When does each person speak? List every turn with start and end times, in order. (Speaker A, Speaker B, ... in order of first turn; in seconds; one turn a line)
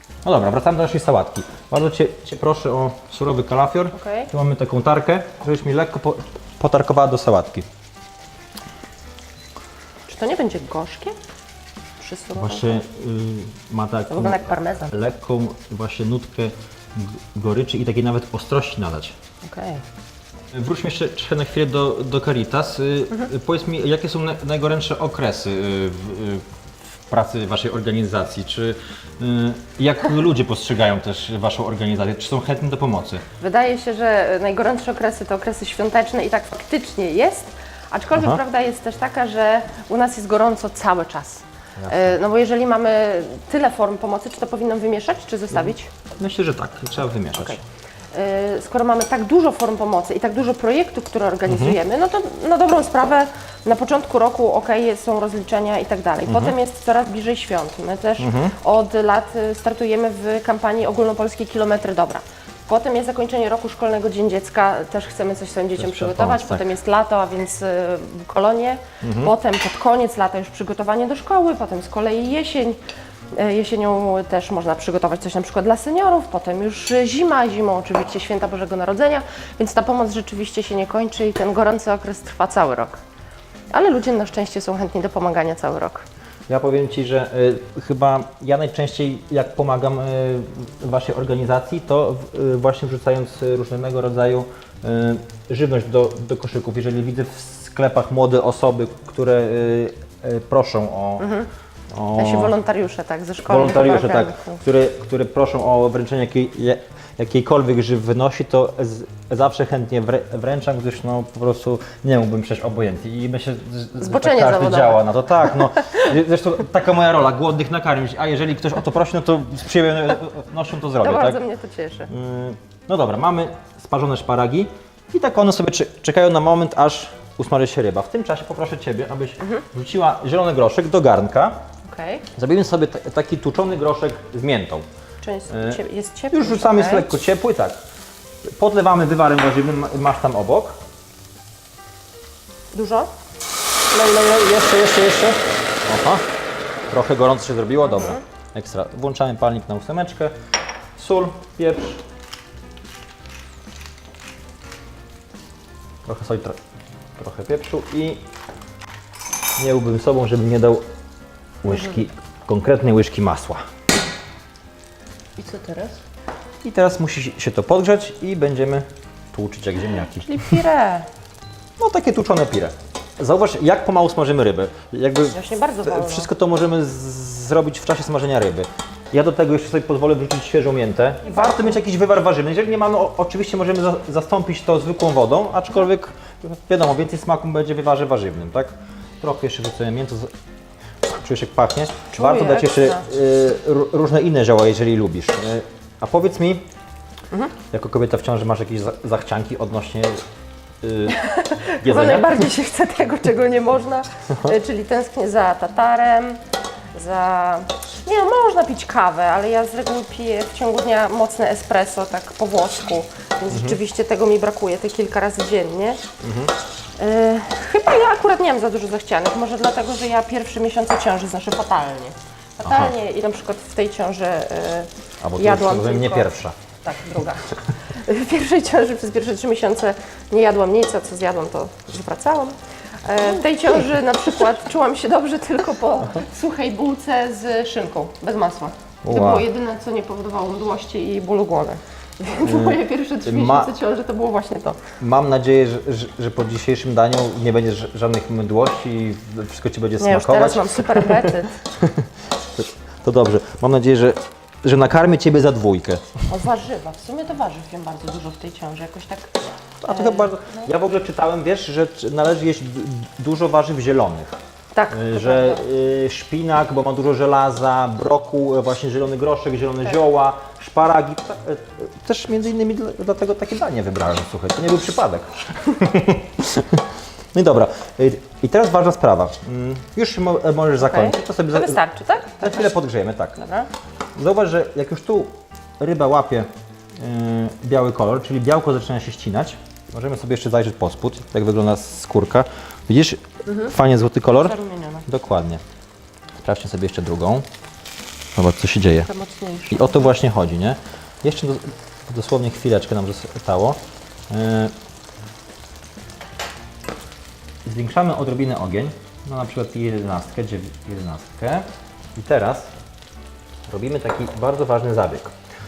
Speaker A: 0.2-7.7
Speaker B: 3.9-4.3
Speaker B: 10.1-11.2
Speaker B: 12.0-12.8
Speaker A: 12.4-19.2
Speaker B: 14.1-14.9
Speaker B: 19.4-19.8
Speaker A: 20.5-26.4
Speaker A: 27.1-33.2
Speaker B: 33.4-45.9
Speaker A: 38.1-38.4
Speaker A: 41.8-42.2
Speaker A: 45.5-47.6
Speaker B: 47.3-47.6
Speaker B: 48.1-72.8
Speaker A: 51.5-51.8
Speaker A: 56.3-56.5
Speaker A: 58.2-58.5
Speaker A: 65.8-66.7
Speaker A: 69.0-69.3
Speaker B: 73.3-83.0
Speaker B: 83.7-86.0
Speaker A: 86.5-101.3
Speaker B: 101.2-101.5
Speaker A: 101.9-102.5
Speaker B: 102.2-104.6
Speaker A: 103.5-121.4
Speaker B: 114.0-116.1
Speaker B: 121.0-122.1
Speaker A: 122.1-131.6
Speaker B: 131.9-132.2
Speaker A: 132.3-134.8
Speaker B: 135.2-137.1
Speaker A: 135.5-135.8
Speaker A: 136.3-137.8
Speaker A: 138.5-140.8
Speaker B: 142.7-143.1
Speaker A: 143.9-146.2
Speaker A: 146.9-150.3
Speaker B: 147.9-148.2
Speaker A: 151.0-152.0
Speaker A: 156.1-156.6
Speaker A: 157.2-158.2
Speaker A: 159.6-160.8
Speaker A: 161.6-163.6
Speaker B: 161.7-162.0
Speaker B: 165.4-166.0
Speaker A: 166.6-170.6
Speaker B: 170.2-171.1
Speaker A: 171.8-190.3
Speaker B: 175.3-176.3
Speaker B: 181.2-181.8
Speaker A: 191.0-196.7
Speaker B: 192.2-193.1
Speaker A: 197.7-200.2
Speaker A: 200.8-201.2
Speaker B: 201.1-206.4
Speaker A: 201.8-202.5
Speaker B: 206.9-216.0
Speaker A: 213.5-213.8
Speaker A: 216.2-216.6
Speaker B: 217.0-244.8
Speaker A: 222.6-222.9
Speaker A: 225.2-226.6
Speaker A: 239.0-239.5
Speaker A: 242.4-243.7
Speaker A: 245.0-256.2
Speaker B: 250.0-251.6
Speaker B: 256.3-259.3
Speaker A: 259.8-264.4
Speaker B: 259.8-260.6
Speaker B: 264.7-265.6
Speaker A: 264.9-281.8
Speaker B: 280.8-282.8
Speaker A: 282.3-283.4
Speaker B: 283.4-283.7
Speaker A: 284.2-295.6
Speaker B: 294.3-295.1
Speaker A: 296.4-297.5
Speaker A: 298.4-299.1
Speaker B: 299.0-300.1
Speaker A: 299.7-303.8
Speaker A: 304.3-304.7
Speaker A: 307.6-312.7
Speaker A: 313.7-315.3